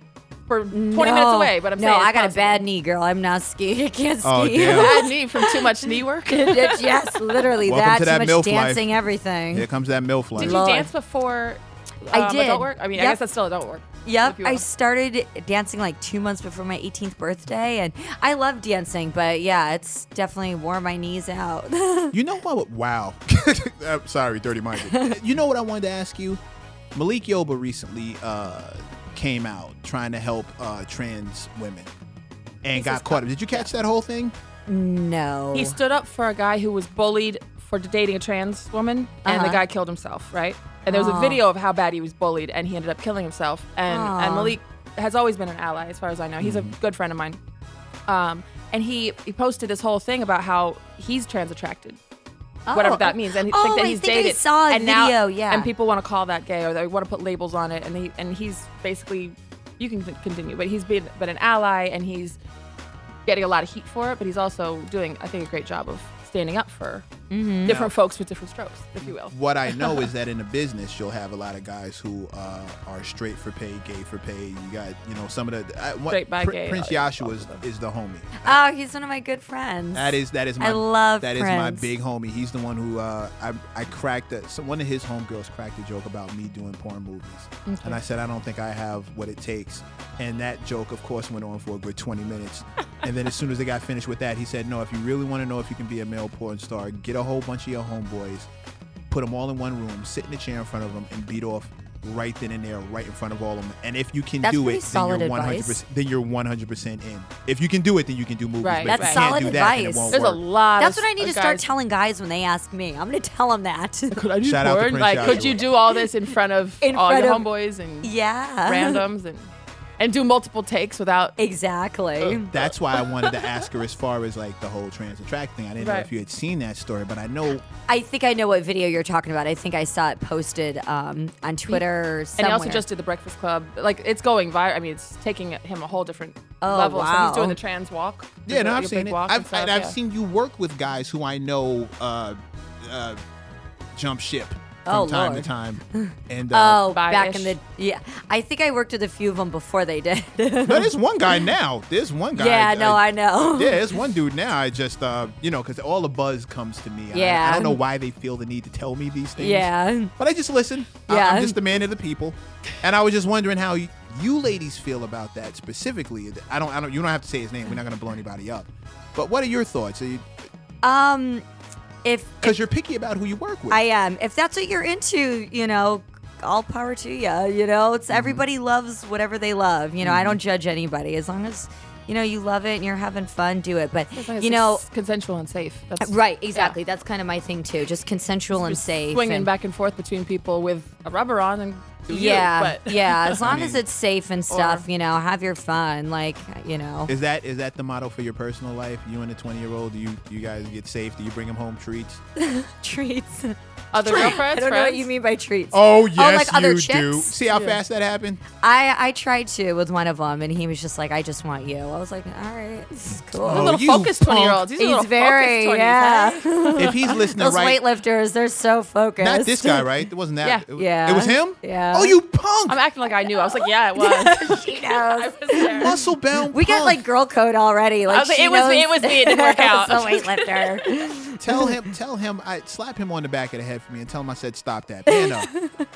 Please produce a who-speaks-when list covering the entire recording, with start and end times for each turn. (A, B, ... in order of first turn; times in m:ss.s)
0:00.5-0:02.6 A
0:00.7-0:09.7 B
0:04.2-0:05.0 C
0:04.6-0:07.0 A
0:07.6-0:09.0 C
0:09.5-0:10.7 C
0:10.4-0:10.9 B
0:10.4-0:14.6 A
0:12.1-0:13.2 B
0:14.0-0:22.2 B
0:22.1-0:26.4 C
0:24.8-0:25.2 B
0:26.9-0:31.9 C
0:32.6-0:34.4 C
0:32.8-0:33.2 B
0:32.9-0:33.7 A
0:34.7-0:35.8 B
0:35.5-0:47.4 A
0:39.2-0:39.6 B
0:40.9-0:41.4 B
0:43.9-0:44.6 B
0:46.4-0:46.7 C
0:48.1-0:52.0 A
0:52.7-0:55.7 B
0:52.7-1:02.4 A
1:03.3-1:07.1 A
1:07.3-1:07.8 B
1:07.6-1:10.1 A
1:07.7-1:07.9 C
1:09.0-1:18.6 C
1:16.1-1:17.6 A
1:18.4-1:21.9 B
1:19.9-1:38.5 C
1:27.7-1:28.0 A
1:39.1-1:50.4 C
1:44.4-1:45.8 B
1:48.6-1:51.7 A
1:48.9-1:50.2 B
1:50.8-1:54.2 B
1:54.1-1:58.1 A
1:54.4-1:55.7 C
1:55.2-1:56.0 B
1:56.8-1:57.5 B
1:58.0-1:59.0 B
1:58.6-2:01.4 A
2:01.4-2:02.5 B
2:02.5-2:07.6 C
2:05.8-2:06.1 A
2:07.9-2:12.8 B
2:12.4-2:20.0 A
2:16.6-2:17.6 B
2:18.5-2:23.2 C
2:24.0-2:26.9 C
2:24.9-2:31.4 B
2:26.9-2:27.5 A
2:30.7-2:50.3 C
2:32.3-2:33.8 B
2:37.1-2:37.8 B
2:39.4-2:40.1 B
2:41.1-2:41.6 B
2:50.8-2:51.4 B
2:52.0-2:52.6 B
2:52.4-2:53.8 C
2:53.7-3:04.8 B
2:58.1-2:58.4 C
3:00.0-3:00.4 C
3:04.2-3:06.8 A
3:06.0-3:09.5 B
3:08.5-3:13.4 A
3:12.1-3:17.1 B
3:13.4-3:13.8 C
3:14.5-3:14.8 A
3:17.1-3:22.2 C
3:22.4-3:27.4 B
3:23.9-3:25.1 A
3:24.0-3:24.4 C
3:25.7-3:28.4 C
3:27.5-3:27.8 A
3:28.6-3:33.9 B
3:33.4-3:34.7 C
3:33.5-3:36.8 A
3:34.8-3:39.9 B
3:36.8-3:37.8 C
3:39.2-3:42.8 C
3:40.8-3:42.2 B
3:42.7-3:46.0 A
3:44.0-3:45.9 B
3:45.7-3:47.0 C
3:46.5-3:51.7 B
3:48.1-3:51.0 A
3:51.4-3:55.5 C
3:55.1-3:55.7 B